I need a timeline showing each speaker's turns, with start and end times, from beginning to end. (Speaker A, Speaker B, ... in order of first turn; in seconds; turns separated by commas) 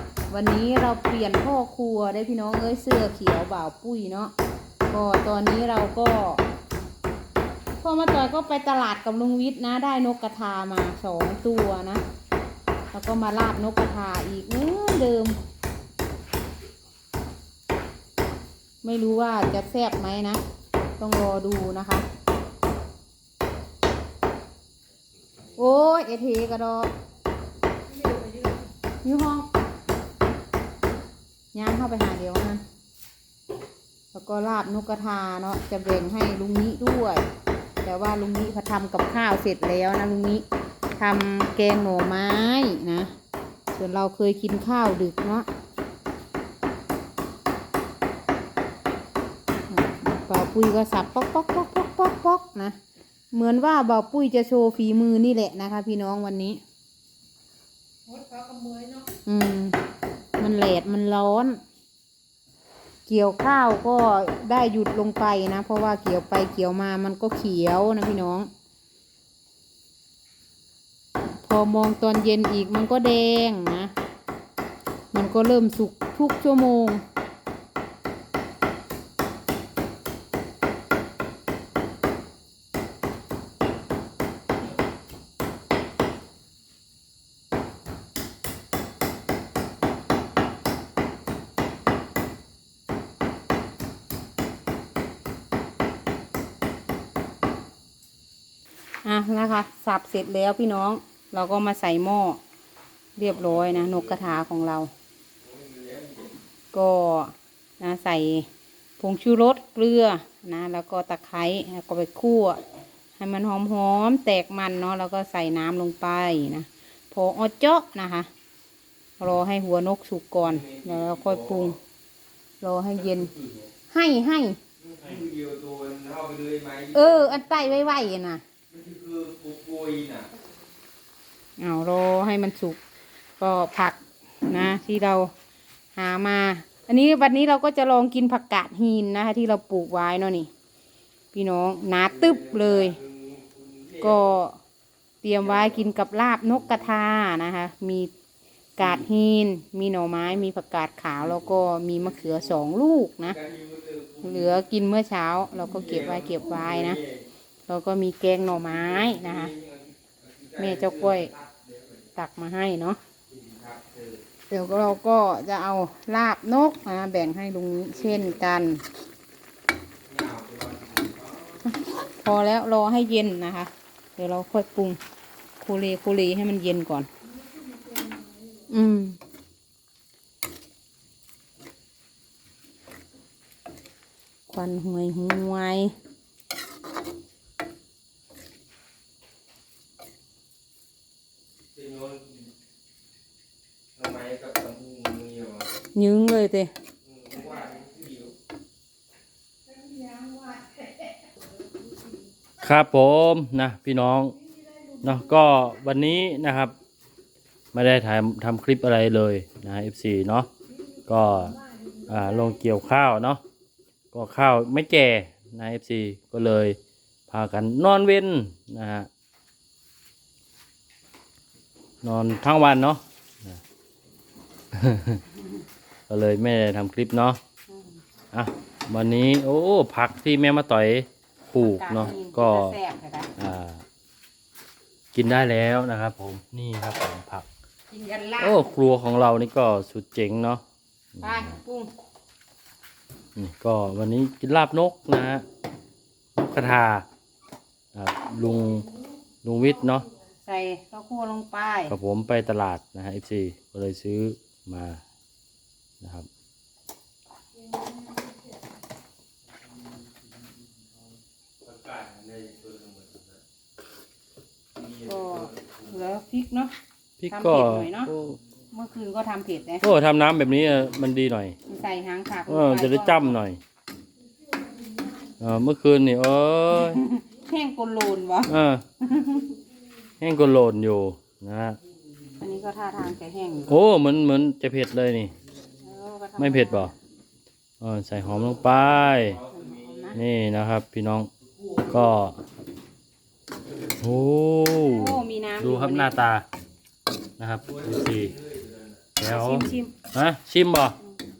Speaker A: 0.3-4.3, Speaker A: 4.9-6.4, Speaker A: 7.8-12.0, Speaker A: 12.9-15.4, Speaker A: 18.8-20.4, Speaker A: 21.0-22.1, Speaker A: 25.6-26.9, Speaker B: 28.1-28.4, Speaker A: 29.0-29.5, Speaker A: 31.5-32.6, Speaker A: 34.1-37.2, Speaker A: 37.8-40.5, Speaker A: 41.0-43.1, Speaker A: 43.7-45.5, Speaker A: 49.7-52.8, Speaker A: 53.3-56.6, Speaker B: 58.2-59.0, Speaker A: 59.2-59.8, Speaker A: 60.4-61.6, Speaker A: 63.1-68.5, Speaker A: 71.4-73.9, Speaker A: 75.1-77.0, Speaker A: 99.0-102.4, Speaker A: 103.2-104.9, Speaker C: 103.4-104.0, Speaker C: 105.4-106.3, Speaker A: 106.7-108.5, Speaker A: 109.0-112.6, Speaker A: 113.2-118.3, Speaker A: 119.2-121.8, Speaker C: 120.4-121.7, Speaker A: 122.6-123.3, Speaker A: 123.9-124.6, Speaker C: 124.8-127.7, Speaker A: 126.9-128.4, Speaker C: 128.7-130.3, Speaker A: 131.6-132.8, Speaker A: 133.4-135.3, Speaker A: 135.9-140.5, Speaker A: 141.3-143.0, Speaker C: 142.1-144.3, Speaker A: 144.0-144.6, Speaker A: 145.2-148.1, Speaker A: 148.8-153.4, Speaker C: 153.3-154.6, Speaker A: 154.2-157.0, Speaker C: 155.7-157.2, Speaker A: 157.7-159.5, Speaker C: 158.6-162.1, Speaker A: 160.6-161.3, Speaker A: 162.1-163.0, Speaker C: 163.3-164.2, Speaker A: 164.5-168.8, Speaker C: 167.9-168.4, Speaker C: 170.0-171.6, Speaker A: 171.7-175.0, Speaker A: 175.6-177.1, Speaker B: 177.7-178.3, Speaker A: 178.7-179.2, Speaker A: 184.5-185.9, Speaker C: 191.7-192.5, Speaker C: 193.9-195.7, Speaker A: 195.9-196.7, Speaker C: 197.0-198.3, Speaker B: 199.9-200.7, Speaker D: 202.6-204.3, Speaker D: 205.0-206.7, Speaker D: 207.7-210.5, Speaker D: 211.1-213.4, Speaker B: 211.7-212.0, Speaker D: 214.1-216.8, Speaker D: 217.3-219.1, Speaker D: 222.0-223.6, Speaker D: 224.7-225.2, Speaker D: 226.1-227.4, Speaker A: 227.7-228.0, Speaker D: 228.3-232.8, Speaker A: 231.5-233.3, Speaker D: 233.4-233.8, Speaker D: 235.1-237.5, Speaker A: 237.9-238.7, Speaker D: 238.4-240.6, Speaker D: 241.1-241.6, Speaker A: 241.2-241.9, Speaker D: 243.3-245.4, Speaker D: 246.4-247.1, Speaker D: 247.9-248.9, Speaker D: 249.4-250.1, Speaker A: 250.4-251.9, Speaker D: 251.9-255.0, Speaker D: 256.0-256.3, Speaker C: 261.6-263.4, Speaker C: 264.8-265.9, Speaker A: 265.0-266.7, Speaker D: 267.2-268.4, Speaker A: 267.3-268.1, Speaker A: 268.7-269.9, Speaker D: 269.8-271.6, Speaker A: 271.7-273.3, Speaker D: 272.5-273.6, Speaker D: 275.4-277.0, Speaker A: 276.7-279.5, Speaker D: 278.4-278.8, Speaker D: 280.2-281.8, Speaker A: 282.4-283.8, Speaker D: 283.7-285.3, Speaker A: 285.8-286.9, Speaker D: 286.4-286.9, Speaker D: 287.8-289.4, Speaker C: 288.3-290.1, Speaker A: 289.5-290.2, Speaker D: 290.1-291.3, Speaker C: 291.6-292.0, Speaker D: 291.9-292.4, Speaker D: 294.0-296.5, Speaker A: 294.8-296.2, Speaker D: 297.4-298.3, Speaker C: 297.6-299.1, Speaker D: 299.2-301.0, Speaker A: 299.2-299.9